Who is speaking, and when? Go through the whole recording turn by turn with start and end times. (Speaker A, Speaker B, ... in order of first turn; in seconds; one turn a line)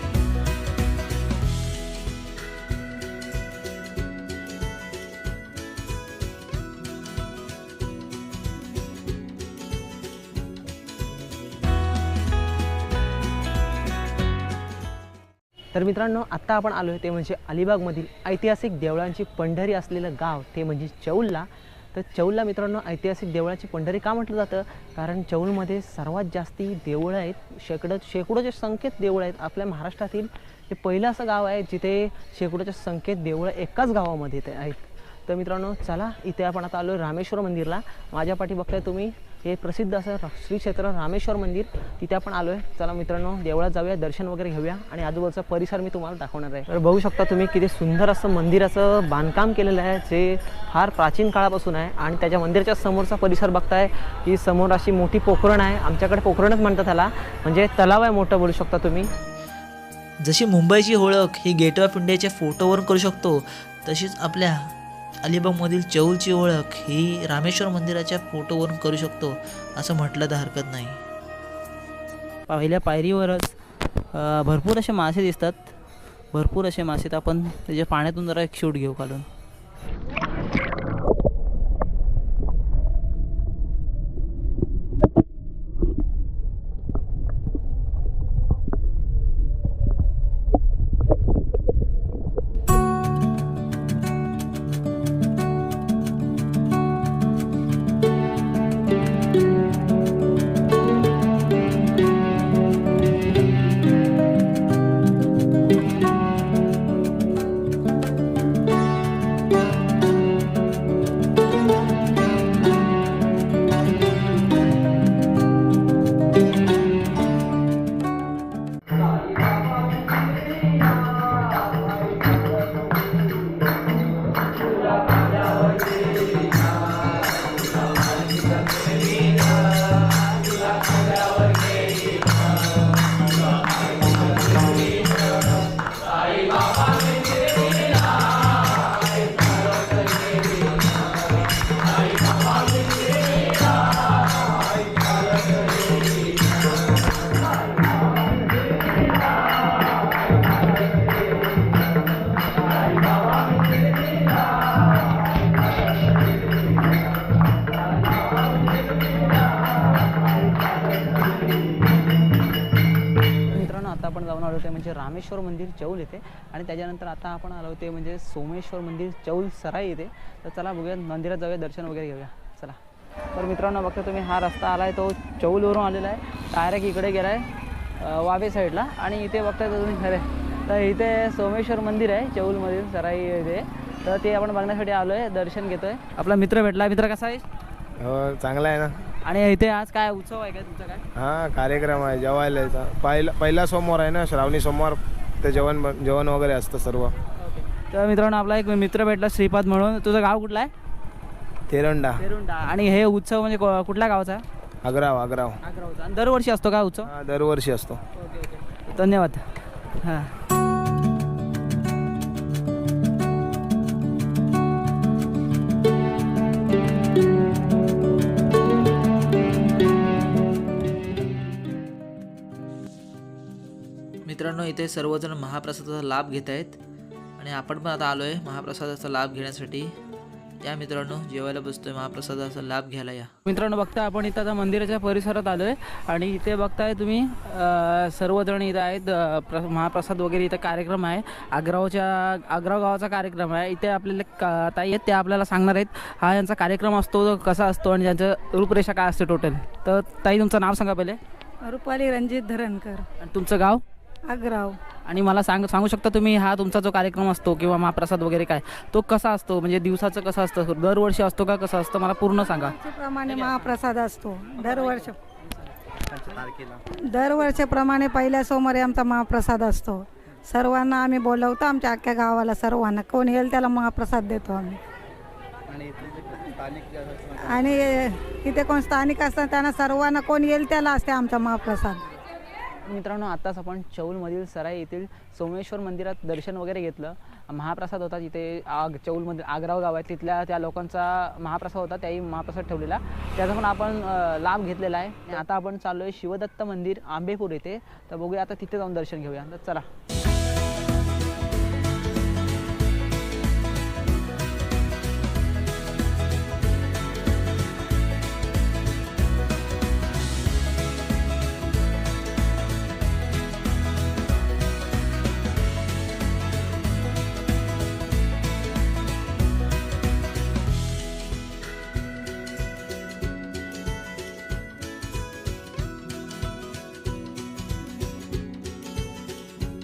Speaker A: 15.7-59.1
Speaker B: 60.2-64.7
Speaker B: 65.2-71.0
Speaker C: 72.5-73.5
Speaker C: 74.1-75.7
Speaker C: 76.3-79.2
Speaker C: 163.5-172.7
Speaker C: 173.3-187.4
Speaker D: 188.0-189.0
Speaker C: 189.2-191.0
Speaker D: 191.2-197.1
Speaker C: 197.4-200.7
Speaker D: 201.7-202.2
Speaker C: 202.2-204.4
Speaker D: 204.8-205.6
Speaker C: 205.6-207.1
Speaker D: 207.0-208.0
Speaker C: 208.3-209.5
Speaker C: 210.0-210.3
Speaker B: 224.2-226.8
Speaker B: 227.4-229.9
Speaker B: 230.6-233.3
Speaker C: 233.4-251.2
Speaker E: 251.6-253.1
Speaker C: 253.2-253.8
Speaker E: 254.3-254.8
Speaker C: 254.9-262.7
Speaker E: 262.4-265.2
Speaker C: 266.3-266.8
Speaker E: 266.9-274.8
Speaker E: 277.4-282.0
Speaker C: 282.8-299.9